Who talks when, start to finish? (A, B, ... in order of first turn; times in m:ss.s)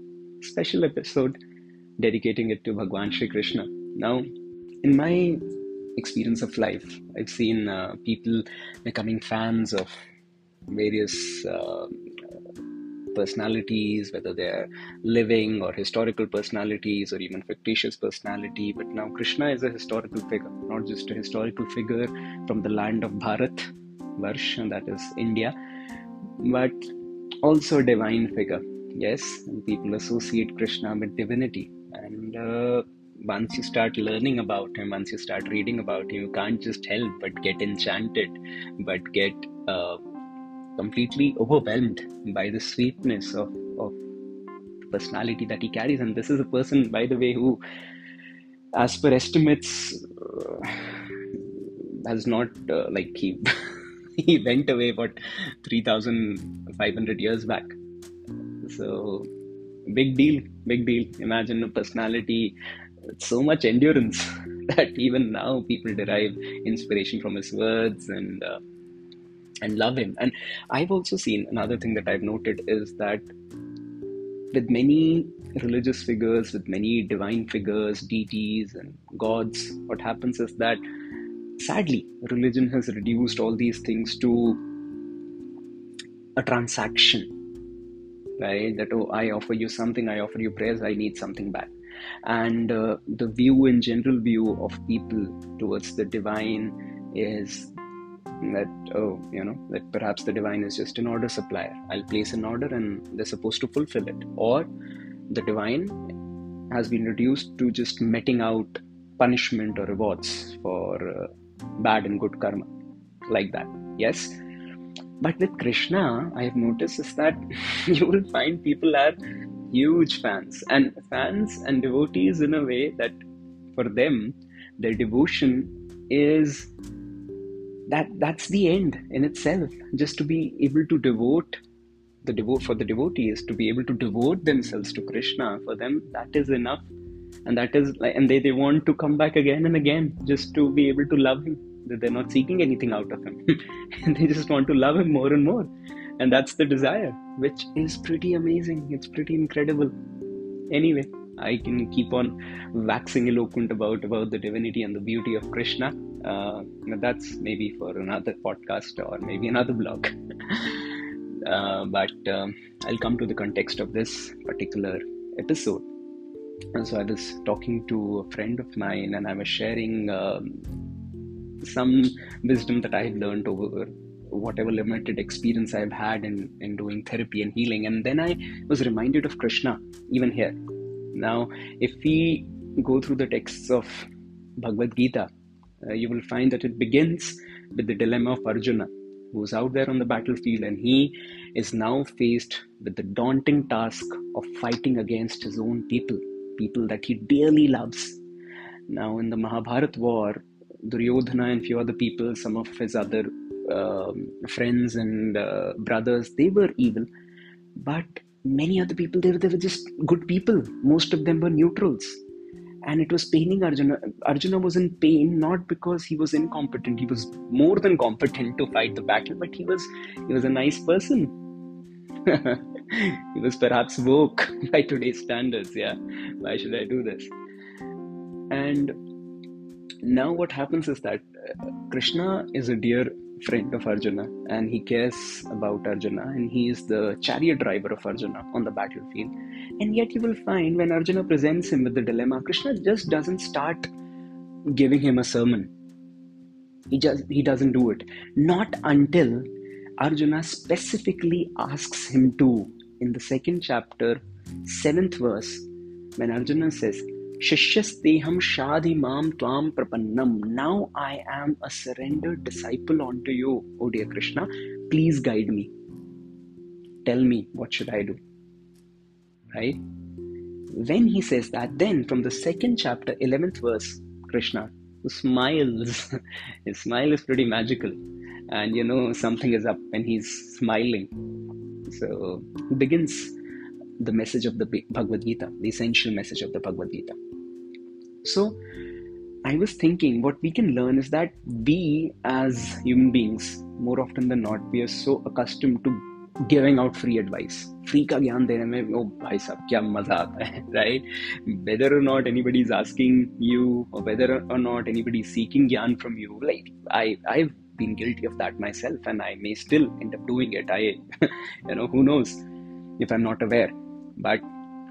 0:00.4-0:01.4 A
0:02.0-0:04.3 A
0:04.8-0:05.4 A
0:06.0-0:10.0 A
0:10.7-0:12.0 A
0:13.1-0:25.5 A
0:26.4-0:26.9 A
0:27.4-0:40.0 A
0:40.8-0:44.0 A
0:44.8-0:47.6 A
0:48.7-0:57.8 A
0:58.6-0:59.3 A
0:59.9-1:02.6 A
1:03.1-1:08.6 A
1:09.6-1:13.3 A
1:14.5-1:20.8 A
1:21.6-1:24.6 A
1:26.4-1:27.3 A
1:28.4-1:31.7 A
1:32.2-1:37.7 A
1:38.4-1:44.7 A
1:45.3-1:46.1 A
1:46.7-1:52.7 A
1:53.3-1:54.4 A
1:55.2-1:59.2 A
1:59.7-2:03.2 A
2:03.7-2:06.7 A
2:07.9-2:11.6 A
2:12.2-2:16.9 A
2:17.4-2:29.9 A
2:30.7-2:45.9 A
2:46.7-2:50.6 A
2:51.6-3:00.6 A
3:01.1-3:05.3 A
3:05.8-3:18.2 A
3:18.9-3:27.1 A
3:27.8-3:32.2 A
3:32.8-3:41.3 A
3:42.2-3:47.3 A
3:48.5-3:49.0 A
3:50.0-4:03.9 A
4:04.6-4:05.7 A
4:06.9-4:25.7 A
4:27.0-4:28.2 A
4:29.5-4:29.8 A
4:30.7-4:38.0 A
4:38.5-4:41.1 A
4:41.8-4:43.4 A
4:44.0-4:47.2 A
4:48.2-4:48.6 A
4:49.4-5:12.4 A
5:13.0-5:14.4 A